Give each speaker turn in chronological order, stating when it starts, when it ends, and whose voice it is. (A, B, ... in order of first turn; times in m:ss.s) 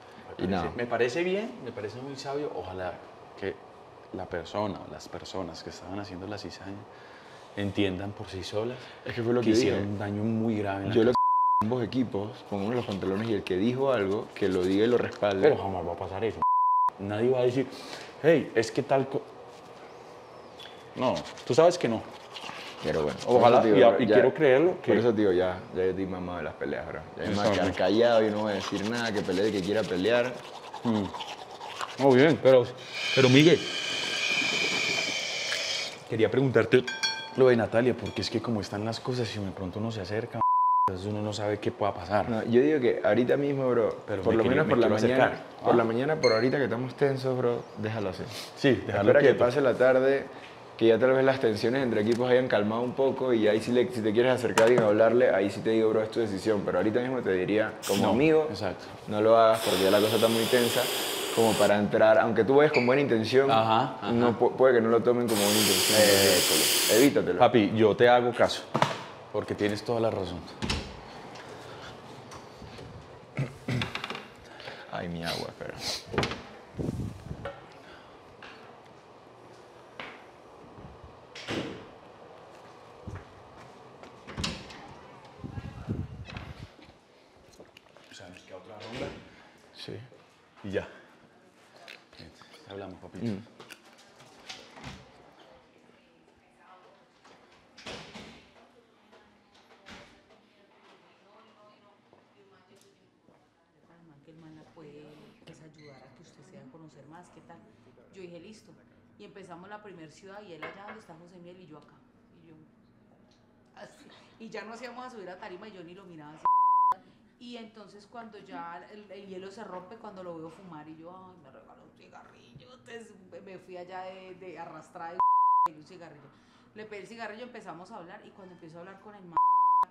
0:00.3-0:06.9 A
0:00.4-0:00.8 B
0:07.6-0:11.2 A
0:09.0-0:09.9 B
0:10.9-0:15.6 B
0:15.4-0:16.4 A
0:17.0-0:19.3 A
0:20.9-0:22.1 A
0:22.8-0:30.4 B
0:23.2-0:25.1 A
0:27.2-0:27.8 A
0:30.8-0:31.1 A
0:32.0-0:33.7 A
0:36.1-0:42.4 A
0:42.2-0:58.6 B
0:44.1-0:45.8 A
0:48.5-0:49.5 A
0:57.9-0:59.0 A
0:59.1-1:07.5 B
1:03.5-1:04.4 A
1:05.9-1:06.6 A
1:07.4-1:08.7 A
1:09.3-1:10.6 A
1:14.8-1:15.8 B
1:28.1-1:29.2 A
1:29.8-1:30.1 B
1:30.6-1:30.9 A
1:32.2-1:33.4 A
1:43.9-1:52.6 C
1:54.0-1:56.5 C
1:57.4-2:09.4 C